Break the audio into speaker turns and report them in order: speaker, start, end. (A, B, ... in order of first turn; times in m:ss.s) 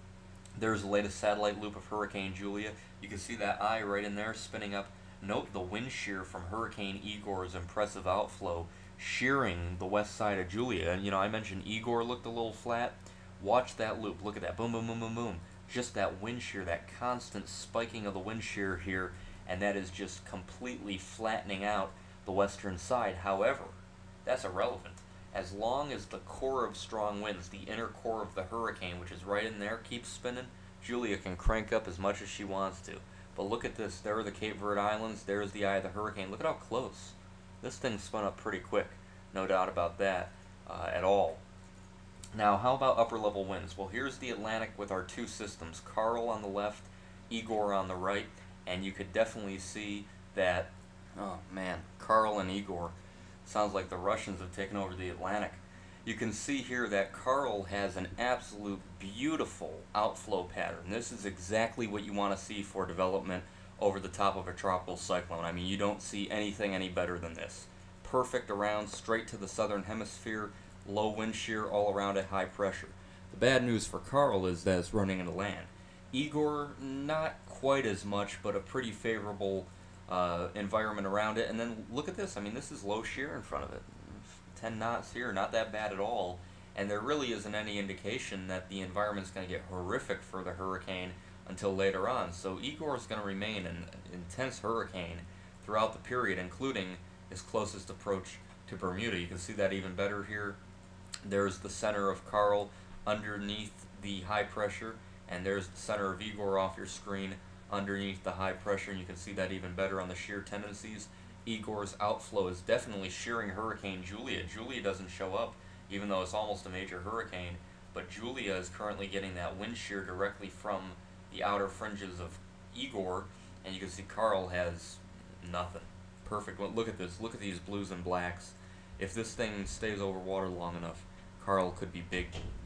0:00.6-0:41.4 A
0:42.3-1:40.6 A
1:41.2-2:12.4 A